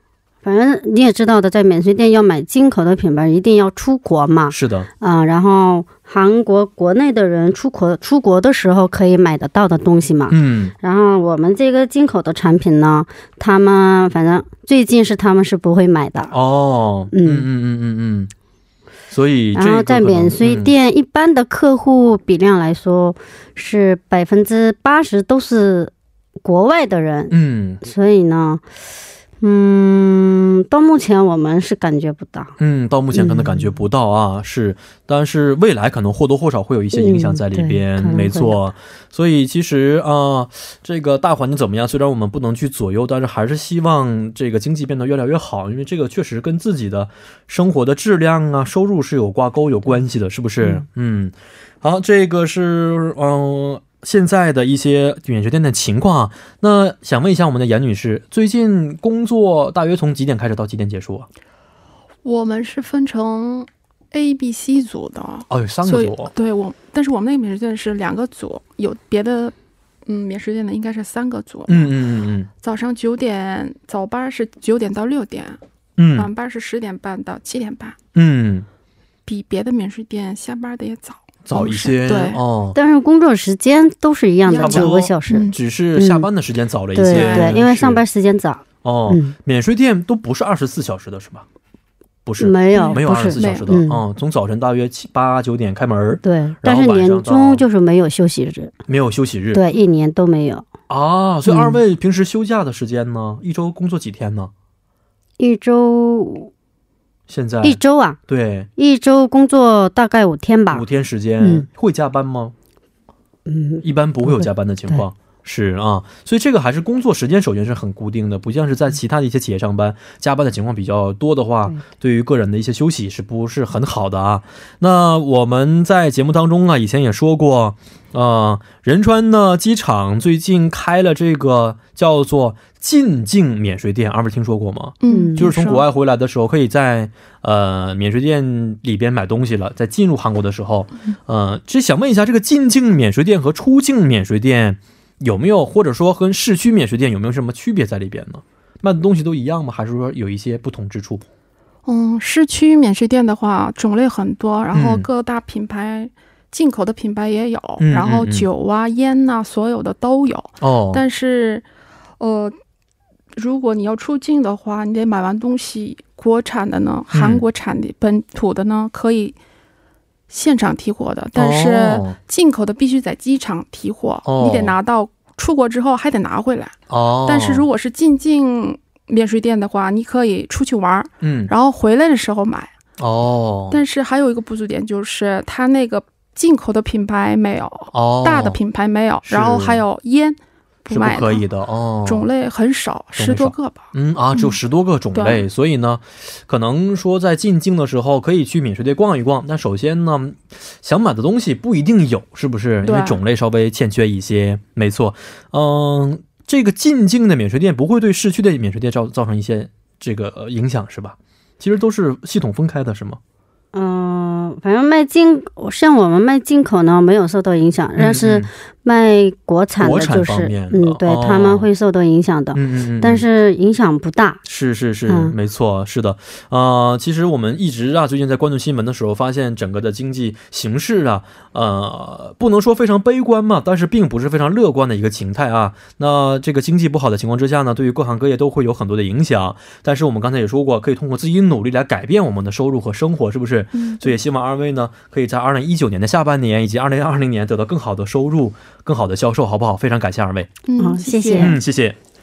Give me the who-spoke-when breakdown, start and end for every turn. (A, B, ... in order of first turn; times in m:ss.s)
0:00.4-0:16.3 A
0:04.5-0:04.9 B
0:10.3-0:10.7 B
0:16.3-0:18.3 B
0:17.1-0:17.5 A
0:19.1-0:20.7 B
0:19.5-0:28.6 A
0:27.3-0:27.8 B
0:29.4-0:32.6 A
0:32.6-1:01.3 B
0:33.1-0:33.8 A
0:36.9-0:38.6 A
1:02.2-1:11.9 C
1:05.5-1:06.3 B
1:11.7-1:12.5 B
1:12.6-1:15.6 C
1:16.0-1:16.3 B
1:16.1-1:18.0 C
1:18.1-1:18.7 B
1:19.2-1:22.4 C
1:21.4-1:22.8 B
1:22.7-1:26.3 A
1:24.4-1:25.6 C
1:24.6-1:28.0 B
1:26.9-1:29.3 A
1:27.1-1:27.6 C
1:28.8-1:31.4 B
1:32.2-1:37.6 B
1:32.4-1:34.0 A
1:32.7-1:33.7 C
1:36.2-1:38.7 A
1:38.9-1:39.6 B
1:39.5-1:40.7 A
1:40.9-1:44.5 B
1:41.4-1:41.8 A
1:45.4-1:46.5 A
1:47.3-1:48.7 B
1:47.6-1:48.2 A
1:48.8-1:50.8 A
1:50.7-1:52.5 B
1:51.4-1:51.7 A
1:53.4-1:55.0 A
1:53.8-2:31.2 B
2:15.0-2:15.8 C
2:15.1-2:15.5 A
2:31.8-2:41.6 C
2:34.7-2:35.0 B
2:37.8-2:38.4 B
2:40.6-2:41.0 B
2:42.2-2:42.6 C
2:43.3-2:49.4 C
2:47.1-2:47.4 B
2:50.3-3:02.7 C
2:51.4-2:52.2 B
2:54.2-2:54.7 B
2:56.9-2:57.6 B
3:01.2-3:01.5 B
3:03.0-3:03.8 B
3:03.7-3:11.4 C
3:07.9-3:08.6 B
3:09.2-3:09.8 B
3:10.9-3:12.3 B
3:12.0-3:13.8 C
3:13.2-3:33.2 B
3:15.1-3:15.4 C
3:22.8-3:23.2 C
3:33.7-3:44.4 A
3:38.0-3:38.5 B
3:39.8-3:41.7 B
3:42.5-3:43.2 B
3:44.4-4:10.5 B
3:45.1-3:45.3 A
4:03.7-4:04.1 C
4:10.6-4:11.6 C
4:10.8-4:11.6 A
4:11.4-4:12.0 B